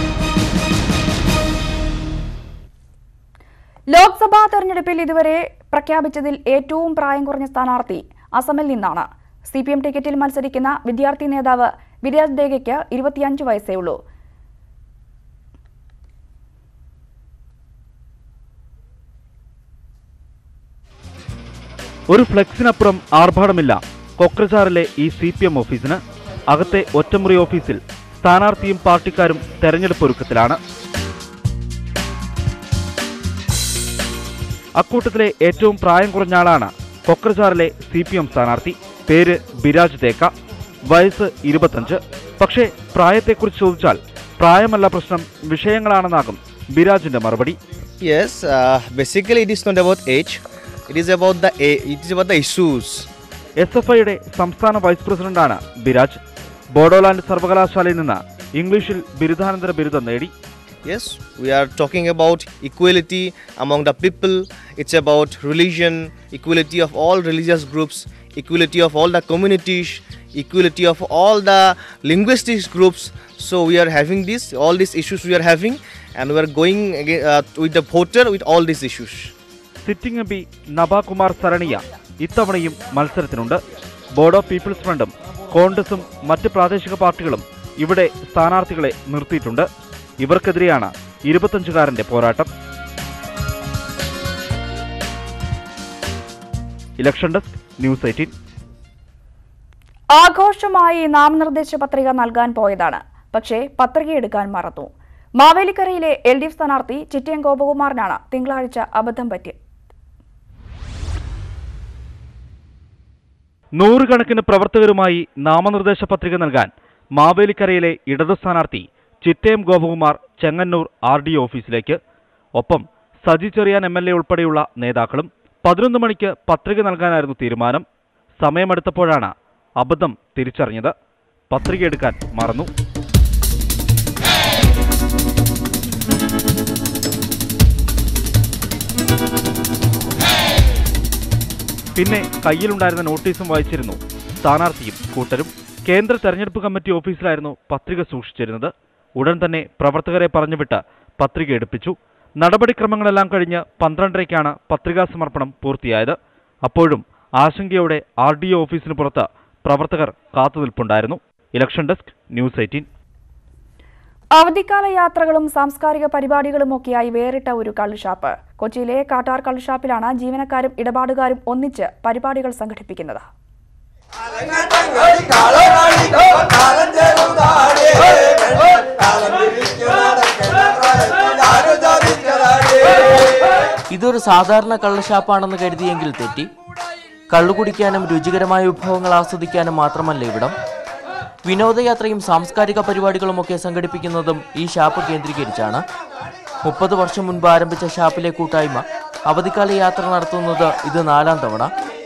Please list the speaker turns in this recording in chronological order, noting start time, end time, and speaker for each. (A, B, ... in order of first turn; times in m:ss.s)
0:03.9-0:14.0 A
0:22.1-0:26.0 B
0:26.5-0:30.6 B
0:34.8-0:40.3 B
0:40.9-0:47.6 B
0:48.0-0:53.1 C
0:53.6-0:56.2 B
0:56.8-1:00.3 B
1:00.9-1:19.3 C
1:19.8-1:23.6 B
1:24.2-1:29.7 B
1:30.2-1:32.5 B
1:37.0-1:38.3 B
1:40.1-1:49.6 A
1:53.8-2:02.0 B
2:02.6-2:07.8 B
2:08.4-2:10.9 B
2:11.5-2:12.7 B
2:22.0-2:42.9 B
2:44.4-2:53.2 A
3:03.9-3:06.5 D
3:07.3-3:10.5 D
3:11.5-3:15.8 D
3:16.6-3:21.7 D